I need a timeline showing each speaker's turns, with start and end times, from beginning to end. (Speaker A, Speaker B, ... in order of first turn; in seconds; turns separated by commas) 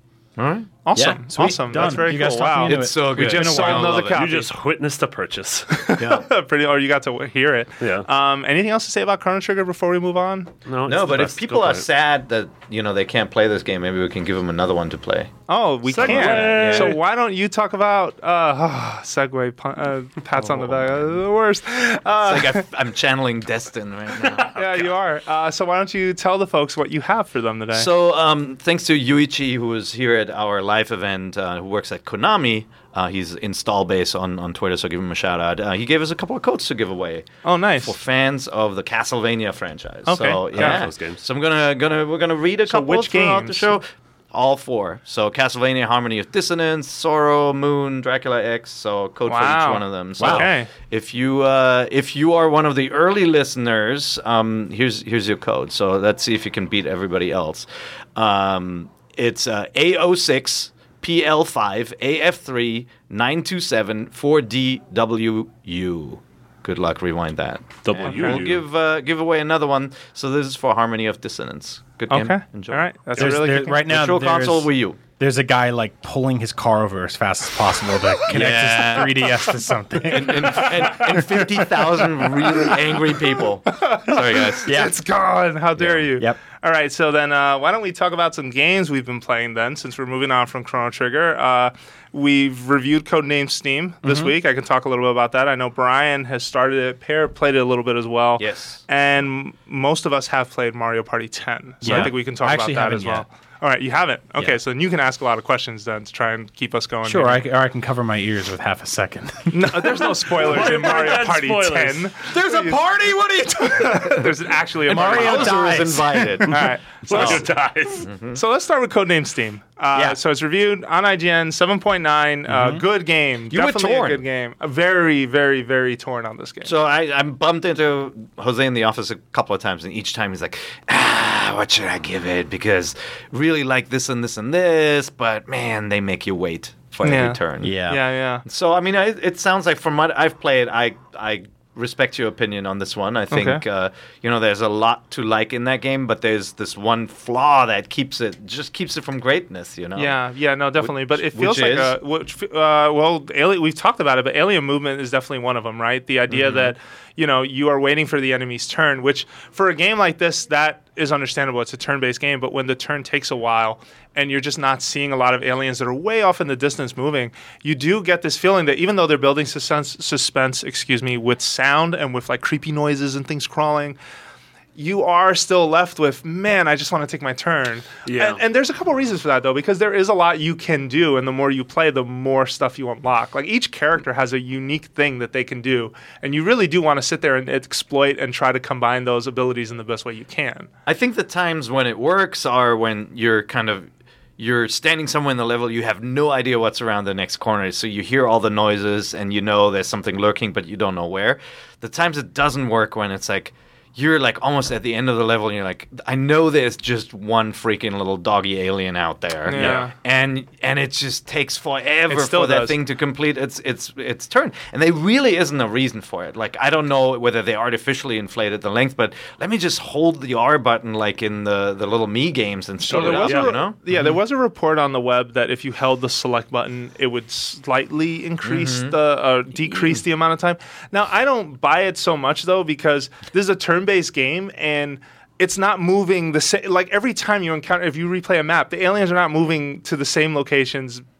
Speaker A: 0.4-0.8, Speaker B: 0.8-4.5, Speaker C: 0.9-4.0, Speaker A: 2.2-4.2, Speaker D: 4.0-5.7, Speaker B: 5.7-10.5, Speaker A: 6.0-6.2, Speaker D: 7.8-8.1, Speaker D: 10.7-11.9, Speaker A: 10.8-15.3, Speaker B: 15.5-22.6, Speaker D: 15.9-17.0, Speaker A: 16.0-16.9, Speaker A: 22.0-24.9, Speaker B: 24.5-27.9, Speaker A: 27.7-72.8, Speaker B: 37.4-37.9, Speaker B: 40.1-40.8, Speaker D: 40.5-41.2, Speaker B: 42.7-43.8, Speaker B: 49.3-50.7, Speaker D: 67.8-68.6, Speaker B: 68.0-68.4, Speaker B: 72.1-73.8, Speaker C: 73.2-81.4, Speaker A: 73.7-75.0, Speaker A: 78.3-79.5, Speaker A: 80.0-84.8, Speaker B: 80.7-82.8, Speaker B: 83.7-107.4, Speaker C: 84.7-84.9, Speaker A: 85.8-86.0, Speaker C: 94.0-94.3, Speaker A: 98.4-98.8, Speaker C: 101.8-103.2, Speaker C: 107.0-110.7, Speaker B: 109.5-112.8, Speaker D: 110.3-112.1, Speaker C: 112.3-114.3, Speaker B: 113.6-115.7, Speaker C: 114.9-116.4, Speaker A: 114.9-117.4, Speaker B: 116.5-117.5, Speaker D: 117.1-118.0, Speaker A: 118.0-118.4, Speaker B: 118.3-126.7, Speaker C: 122.5-122.8, Speaker A: 123.5-124.2, Speaker A: 126.6-137.8, Speaker B: 137.0-138.4, Speaker C: 137.6-138.0, Speaker A: 138.4-150.2, Speaker B: 143.3-143.6, Speaker B: 149.9-174.0, Speaker A: 150.8-151.9, Speaker A: 156.3-156.7, Speaker B: 174.8-190.7, Speaker D: 178.0-178.4, Speaker A: 190.8-223.8, Speaker B: 209.4-209.9, Speaker C: 209.5-209.8, Speaker B: 212.1-212.8, Speaker D: 222.9-223.5, Speaker B: 222.9-241.0, Speaker A: 228.4-228.9